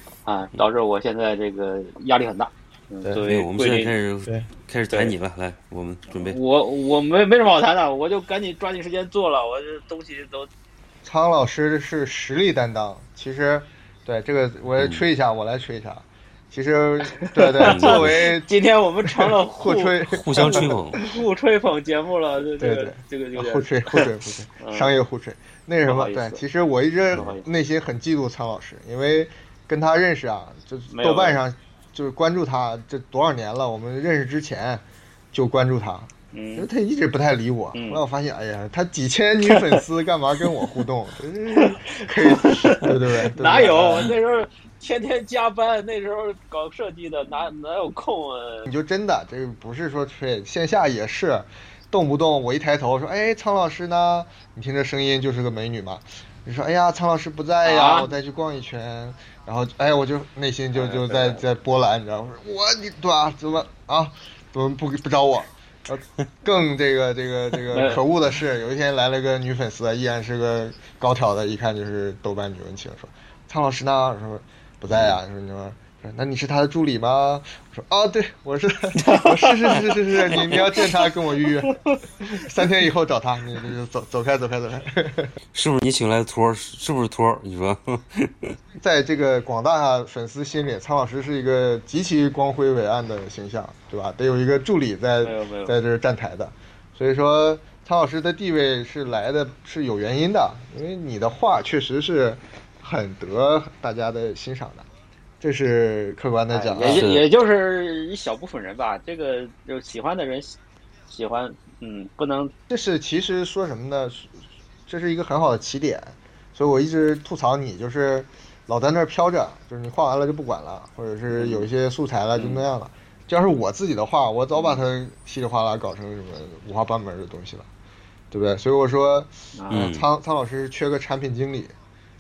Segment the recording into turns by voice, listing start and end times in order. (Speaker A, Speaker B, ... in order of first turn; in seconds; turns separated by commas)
Speaker A: 0.3-3.9, Speaker B: 3.2-6.4, Speaker A: 6.1-10.5, Speaker C: 11.0-18.5, Speaker A: 17.2-24.9, Speaker B: 17.6-18.3, Speaker C: 19.1-21.2, Speaker B: 20.1-21.0, Speaker C: 22.6-44.1, Speaker A: 25.8-26.4, Speaker A: 27.1-27.4, Speaker A: 30.9-31.4, Speaker A: 36.3-36.7, Speaker A: 37.7-38.0, Speaker A: 41.5-48.7, Speaker C: 48.7-85.3, Speaker A: 57.6-58.1, Speaker A: 60.7-61.4, Speaker A: 67.7-68.0, Speaker A: 79.0-81.1, Speaker A: 81.6-81.9, Speaker B: 85.5-88.6, Speaker C: 88.7-104.9, Speaker A: 95.2-95.8, Speaker C: 105.4-107.0, Speaker A: 106.5-110.5, Speaker B: 106.8-107.3, Speaker A: 111.1-112.5, Speaker C: 112.7-127.7, Speaker A: 121.3-121.7, Speaker A: 122.3-122.6, Speaker A: 124.5-124.8, Speaker C: 128.3-131.8, Speaker A: 129.6-129.9, Speaker B: 129.7-130.1